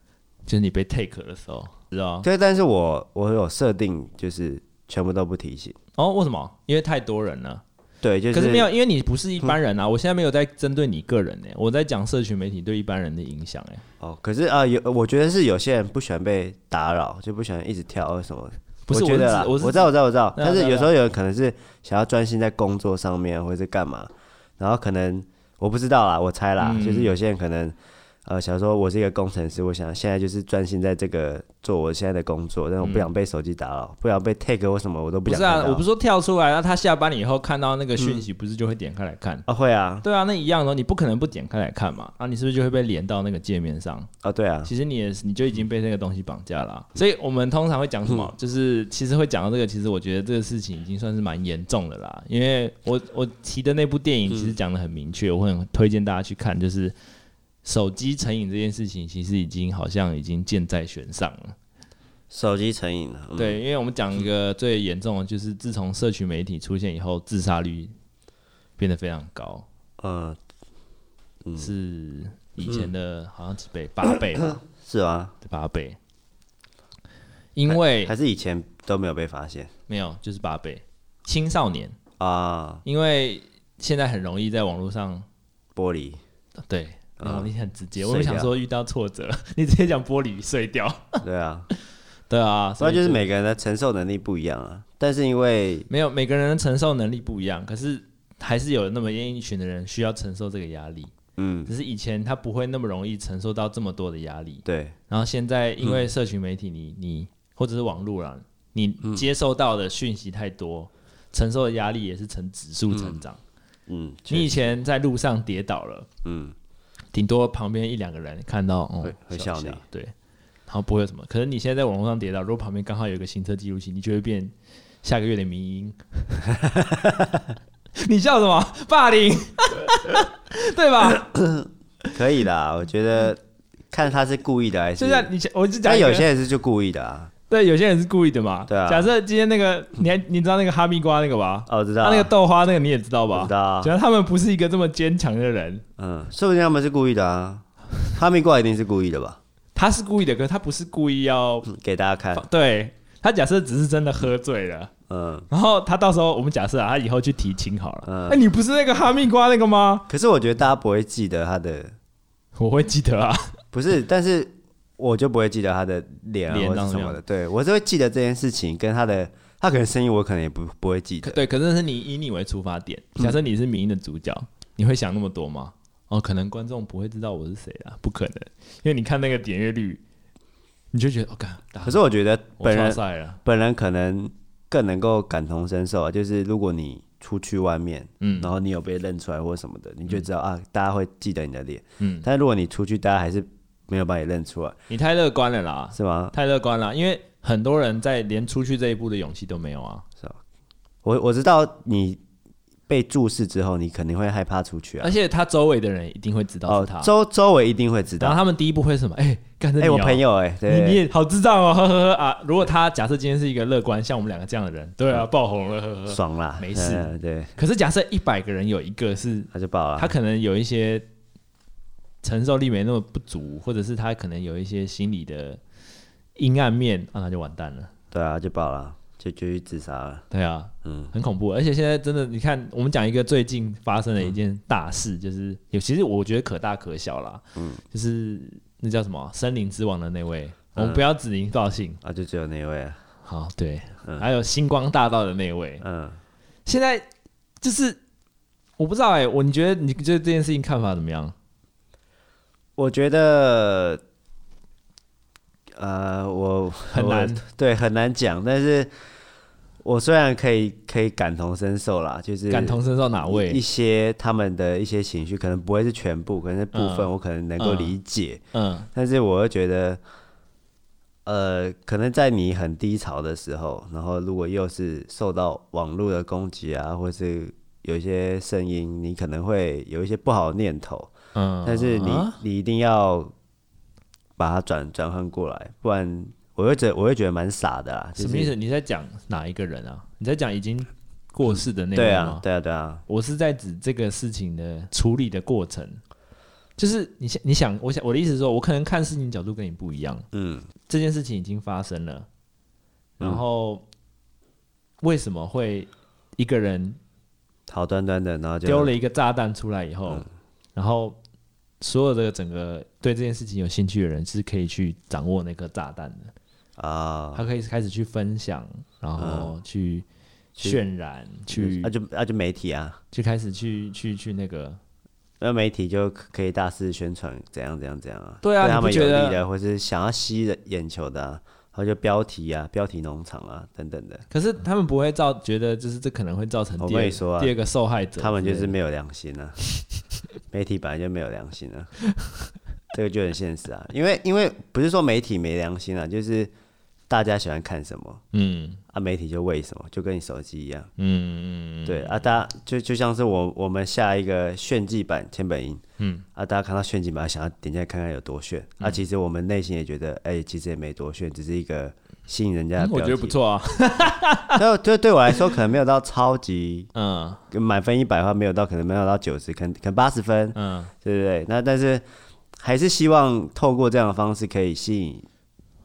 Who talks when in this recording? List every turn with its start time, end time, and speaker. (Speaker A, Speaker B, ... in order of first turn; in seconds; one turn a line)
Speaker A: 0.5-2.3
Speaker B: 2.2-5.8
Speaker A: 6.0-7.6
Speaker B: 8.0-8.7
Speaker A: 8.3-13.8
Speaker B: 14.0-27.8
Speaker A: 18.9-20.9
Speaker A: 26.6-27.2
Speaker B: 28.3-35.8
Speaker A: 32.8-33.1
Speaker A: 35.3-39.5
Speaker B: 38.0-38.2
Speaker B: 39.5-40.0
Speaker A: 40.0-44.1
Speaker B: 44.2-44.7
Speaker A: 44.6-57.0
Speaker B: 54.3-54.5
Speaker A: 57.6-61.5
Speaker B: 62.3-63.6
Speaker A: 63.4-67.9
Speaker A: 68.8-69.7
Speaker B: 70.0-70.4
Speaker B: 71.4-71.7
Speaker A: 71.6-74.6
Speaker B: 74.4-75.3
Speaker A: 75.4-76.0
Speaker A: 77.5-78.1
Speaker B: 77.7-79.7
Speaker A: 79.9-82.0
Speaker B: 82.2-82.8
Speaker A: 82.8-85.3
Speaker B: 85.8-86.2
Speaker A: 86.7-91.2
Speaker B: 87.2-88.5
Speaker B: 91.2-91.7
Speaker A: 92.3-93.2
Speaker B: 92.8-95.9
Speaker A: 95.9-101.1
Speaker B: 101.4-101.7
Speaker A: 101.7-113.4
Speaker B: 104.7-105.0
Speaker B: 112.9-113.2
Speaker B: 113.9-114.7
Speaker A: 114.3-116.1
Speaker B: 116.2-116.5
Speaker A: 117.1-120.1
Speaker B: 119.0-119.8
Speaker A: 120.7-126.5
Speaker B: 126.6-127.4
Speaker A: 128.0-131.3
Speaker B: 131.2-135.3
Speaker A: 135.0-136.3
Speaker B: 135.8-137.3
Speaker A: 137.5-145.8
Speaker B: 138.7-139.1
Speaker B: 141.7-142.3
Speaker B: 143.3-143.9
Speaker B: 146.0-149.4
Speaker A: 149.8-151.7
Speaker B: 151.7-152.4
Speaker A: 152.3-154.9
Speaker B: 155.1-155.5
Speaker A: 155.5-160.1
Speaker B: 158.0-158.4
Speaker B: 160.1-161.9
Speaker A: 162.6-163.6
Speaker B: 163.7-171.4
Speaker A: 166.5-167.2
Speaker A: 171.2-180.0
Speaker A: 180.9-182.0
Speaker B: 181.8-194.8
Speaker A: 182.6-183.4
Speaker A: 188.2-188.5
Speaker A: 192.0-192.3
Speaker A: 194.9-200.1
Speaker B: 195.9-196.3
Speaker B: 201.0-202.2
Speaker B: 202.9-205.1
Speaker A: 205.0-207.1
Speaker B: 206.7-208.4
Speaker A: 208.2-221.1
Speaker B: 209.8-211.0
Speaker B: 216.1-217.5
Speaker B: 219.5-220.1
Speaker A: 222.2-225.6
Speaker A: 226.4-227.9
Speaker B: 228.1-230.2
Speaker A: 230.3-242.0
Speaker B: 230.8-231.1
Speaker B: 237.6-237.8
Speaker B: 240.8-241.0
Speaker B: 242.0-243.0
Speaker A: 243.2-245.8
Speaker B: 245.8-246.2
Speaker A: 246.7-247.1
Speaker A: 247.6-248.0
Speaker A: 248.8-251.3
Speaker B: 252.8-254.0
Speaker B: 255.8-258.9
Speaker A: 256.9-257.4
Speaker B: 259.8-268.4
Speaker A: 262.5-263.6
Speaker A: 266.7-268.0
Speaker A: 268.5-268.9
Speaker B: 268.9-270.0
Speaker B: 271.3-281.1
Speaker A: 281.3-282.4
Speaker B: 281.6-283.3
Speaker B: 284.4-288.5
Speaker A: 288.2-292.4
Speaker B: 291.9-293.0
Speaker A: 293.1-296.0
Speaker A: 296.8-300.3
Speaker B: 300.3-300.7
Speaker A: 300.9-302.3
Speaker A: 303.2-303.9
Speaker A: 305.0-307.0
Speaker B: 307.7-308.9
Speaker A: 308.6-310.2
Speaker A: 310.8-311.2
Speaker A: 311.8-316.3
Speaker B: 316.8-317.4
Speaker A: 317.3-320.1
Speaker B: 319.2-319.6
Speaker A: 320.6-321.9
Speaker B: 321.5-323.0
Speaker A: 323.1-324.8
Speaker B: 325.4-334.2
Speaker A: 328.4-329.4
Speaker A: 334.3-338.8
Speaker B: 336.8-337.6
Speaker B: 338.2-339.6
Speaker B: 340.5-341.9
Speaker B: 342.9-346.5
Speaker B: 347.1-348.2
Speaker A: 348.3-348.8
Speaker B: 348.9-350.9
Speaker A: 351.0-352.3
Speaker B: 351.9-355.8
Speaker A: 356.0-356.2
Speaker B: 356.4-363.4
Speaker A: 362.8-364.6
Speaker B: 364.6-366.9
Speaker A: 366.9-367.4
Speaker B: 367.5-372.0
Speaker A: 370.5-370.9
Speaker B: 372.6-375.3